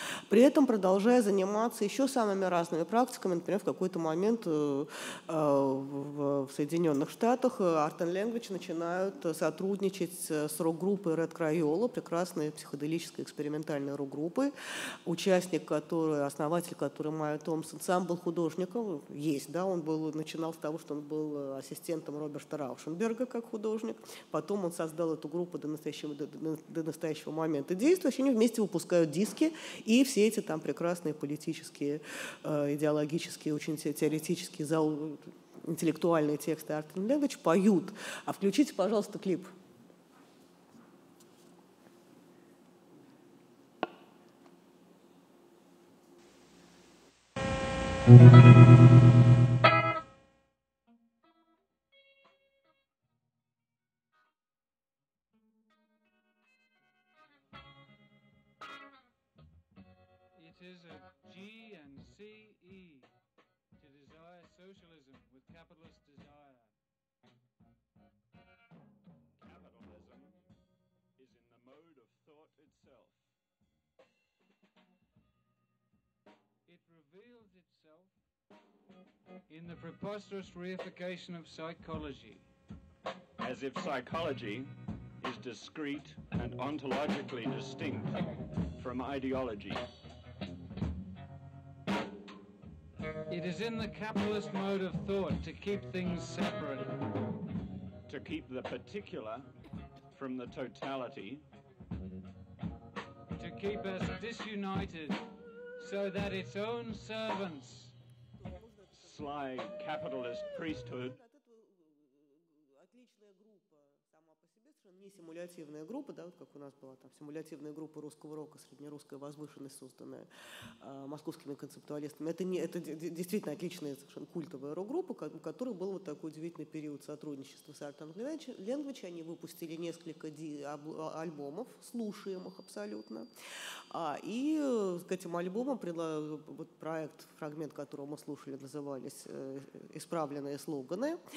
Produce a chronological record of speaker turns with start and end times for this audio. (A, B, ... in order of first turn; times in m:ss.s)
0:00.3-0:14.5 A
0:15.0-0:39.5 A
1:00.3-1:03.1 B
1:03.8-1:06.7 B
1:09.4-1:10.4 C
1:11.2-1:13.2 C
1:16.6-1:18.1 B
1:19.5-1:22.4 B
1:23.4-1:28.2 C
1:28.8-1:29.8 C
1:33.3-1:37.0 B
1:38.1-1:39.5 C
1:40.1-1:41.4 C
1:43.3-1:45.2 B
1:45.8-1:47.9 B
1:48.4-1:48.9 A
1:49.0-1:51.2 C
1:51.1-1:51.9 A
1:52.7-2:00.3 A
2:00.8-2:13.3 A
2:13.9-2:21.2 A